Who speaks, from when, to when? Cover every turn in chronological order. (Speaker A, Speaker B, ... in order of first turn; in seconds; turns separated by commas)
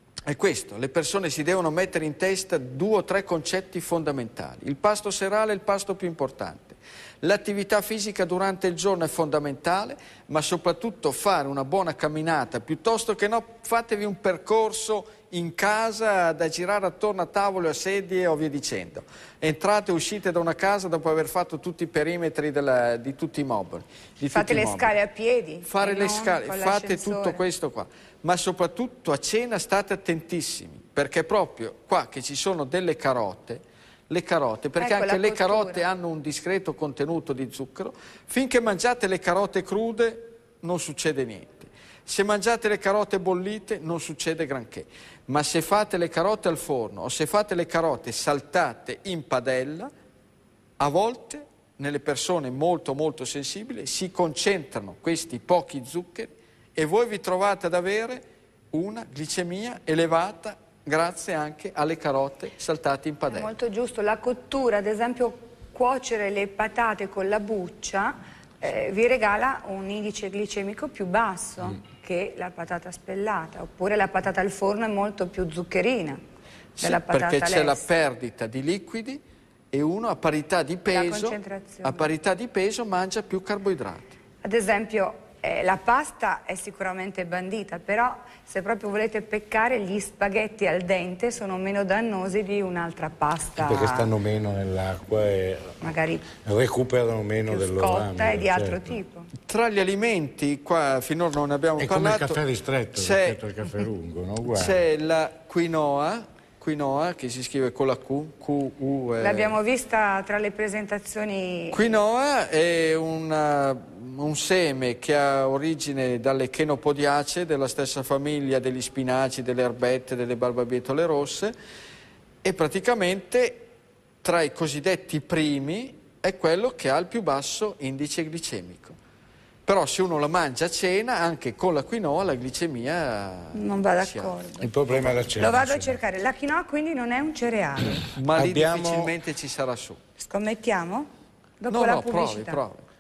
Speaker A: 0.3-24.9, Speaker B: 24.3-27.4, Speaker A: 25.6-49.9, Speaker B: 34.8-35.8, Speaker A: 50.8-63.5, Speaker B: 63.3-76.2, Speaker A: 76.8-84.1, Speaker B: 76.8-77.9, Speaker B: 80.9-82.1, Speaker B: 84.4-94.1, Speaker C: 93.6-95.7, Speaker B: 95.8-96.3, Speaker C: 96.4-99.0, Speaker B: 97.5-99.3, Speaker A: 99.5-103.4, Speaker C: 101.8-104.8, Speaker A: 104.5-109.6, Speaker B: 109.2-112.0, Speaker A: 111.7-121.5, Speaker A: 122.4-123.6, Speaker A: 124.2-129.0, Speaker A: 129.7-134.4, Speaker B: 133.6-134.7, Speaker C: 134.6-136.0, Speaker A: 134.9-135.3, Speaker B: 135.3-138.0, Speaker A: 138.2-140.0, Speaker C: 138.3-139.1, Speaker B: 140.2-141.1, Speaker B: 141.6-142.6, Speaker A: 141.7-142.8